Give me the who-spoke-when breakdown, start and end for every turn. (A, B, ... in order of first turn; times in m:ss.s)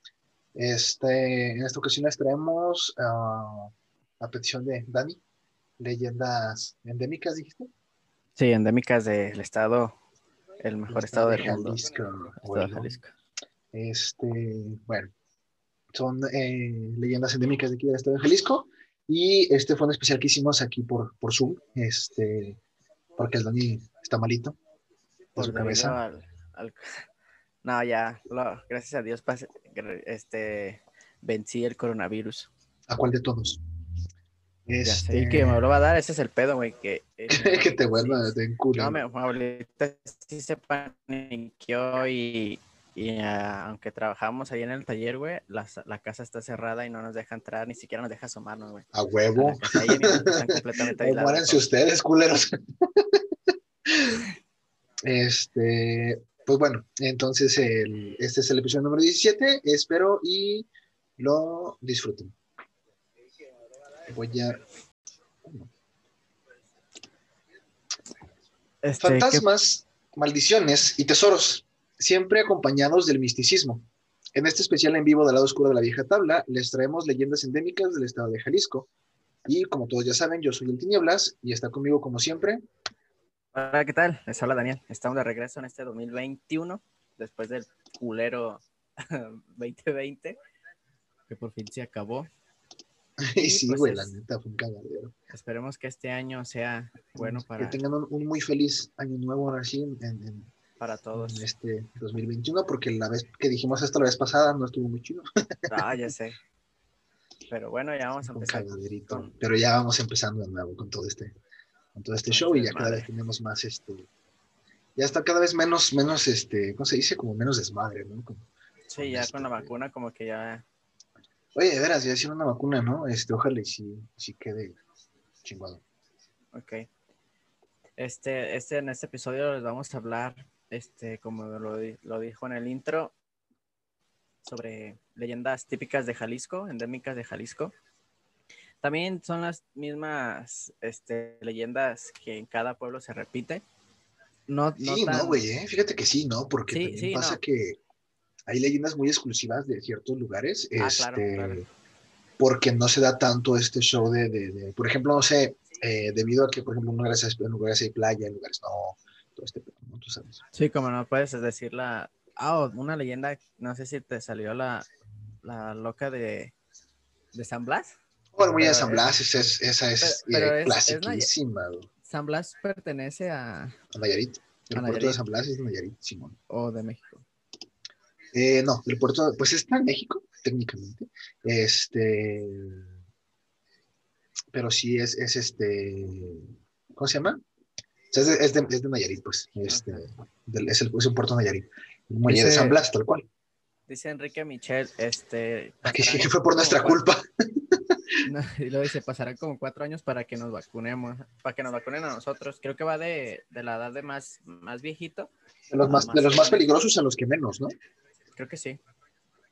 0:00.5-0:05.2 A
0:05.8-0:07.7 A
0:08.4-0:10.0 B
0:10.6-0:11.8 B
0:10.9-0:12.9 A
0:12.4-0:13.1 B
0:13.7-0:15.1 A
0:15.9-0:22.6 A
0:23.2-0:24.6 A
0:25.3-0:26.0 A
0:25.4-0:27.0 B
0:27.6-0:32.5 B
0:32.9-0:33.6 A
0:34.7-0:35.6 A
0:34.8-0:51.6 B
0:37.3-0:39.0 A
0:48.9-0:53.2 A
0:53.8-0:54.3 A
0:55.0-1:00.7 A
1:01.2-1:02.3 A
1:04.0-1:04.6 A
1:05.4-1:05.7 A
1:08.8-1:09.4 B
1:09.0-1:18.9 A
1:19.4-1:22.6 A
1:23.5-1:30.4 B
1:31.3-1:32.3 B
1:33.2-1:35.1 A
1:33.4-1:34.1 B
1:35.3-1:37.8 B
1:37.2-1:40.5 A
1:40.8-1:41.4 B
1:41.1-1:45.8 A
1:45.7-1:46.4 B
1:47.5-1:49.3 B
1:48.3-1:51.3 A
1:51.9-1:54.1 A
1:52.3-1:53.1 B
1:55.0-1:58.4 A
1:58.9-2:00.6 B
1:59.0-1:59.7 A
2:01.5-2:04.8 A
2:05.4-2:05.8 A
2:06.5-2:06.9 B
2:08.0-2:13.1 B
2:14.4-2:17.7 B
2:18.8-2:23.6 B
2:24.5-2:25.4 B
2:24.8-2:27.8 A
2:26.7-2:27.4 B
2:28.5-2:31.6 A
2:30.8-2:31.6 B
2:32.4-2:40.4 A
2:40.5-2:44.9 B
2:45.4-2:46.5 B
2:47.3-2:47.9 B
2:48.3-2:51.9 A
2:48.5-2:49.2 B
2:50.0-2:51.3 B
2:52.0-2:53.8 B
2:53.9-2:56.4 A
2:54.7-2:55.2 B
2:56.5-2:57.2 B
2:58.3-3:02.9 A
3:04.5-3:07.4 A
3:08.1-3:13.2 A
3:09.7-3:10.0 B
3:12.2-3:12.8 B
3:13.9-3:17.0 B
3:15.8-3:18.2 A
3:18.2-3:26.6 B
3:25.7-3:27.7 A
3:28.4-3:28.8 B